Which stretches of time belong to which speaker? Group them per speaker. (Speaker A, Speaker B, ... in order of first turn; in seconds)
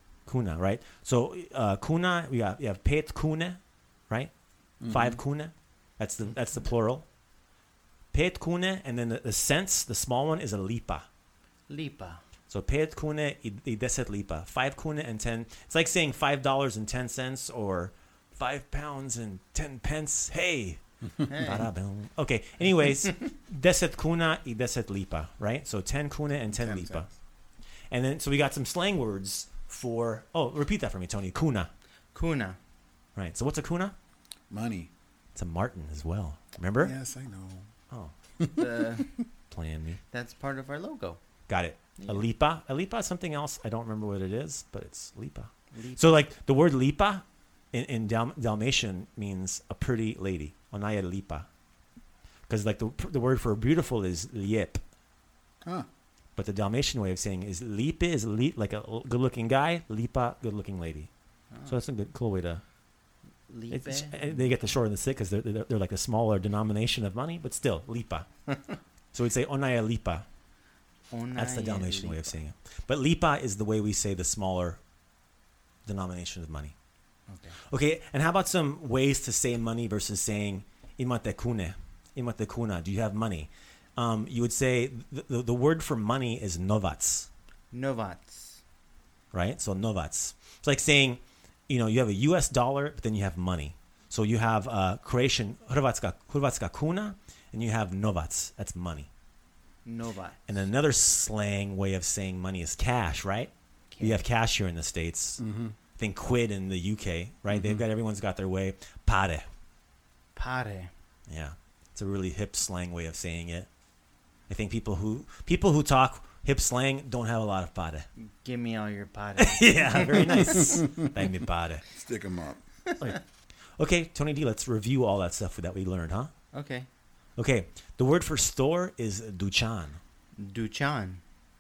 Speaker A: 0.3-4.3, 4.9-7.0, 8.1-11.1, 12.5-27.1, 27.9-31.7, 33.1-33.9, 35.3-36.9, 39.5-40.0, 41.5-51.5, 52.5-54.8, 56.4-61.1, 61.6-62.6, 63.7-68.3, 69.1-70.2, 71.3-74.8, 75.8-76.7, 77.7-87.3, 89.3-99.1, 100.5-105.4, 106.0-109.5, 111.3-113.7, 114.5-118.1, 119.4-121.8, 123.8-126.3, 127.4-130.0
Speaker B: 4.8-5.2, 26.6-27.1, 34.5-34.9, 36.8-37.7, 38.4-39.0, 105.4-105.7, 107.5-107.8, 121.9-122.6
Speaker C: 11.7-12.2, 21.3-21.7, 32.1-32.6, 38.5-39.2, 40.1-41.2, 42.0-42.2, 45.7-46.2, 63.5-64.5, 71.1-72.4, 77.3-77.6, 87.7-88.6, 99.8-100.5, 103.9-104.2, 110.3-110.9, 118.4-120.7, 126.5-126.9, 130.4-131.2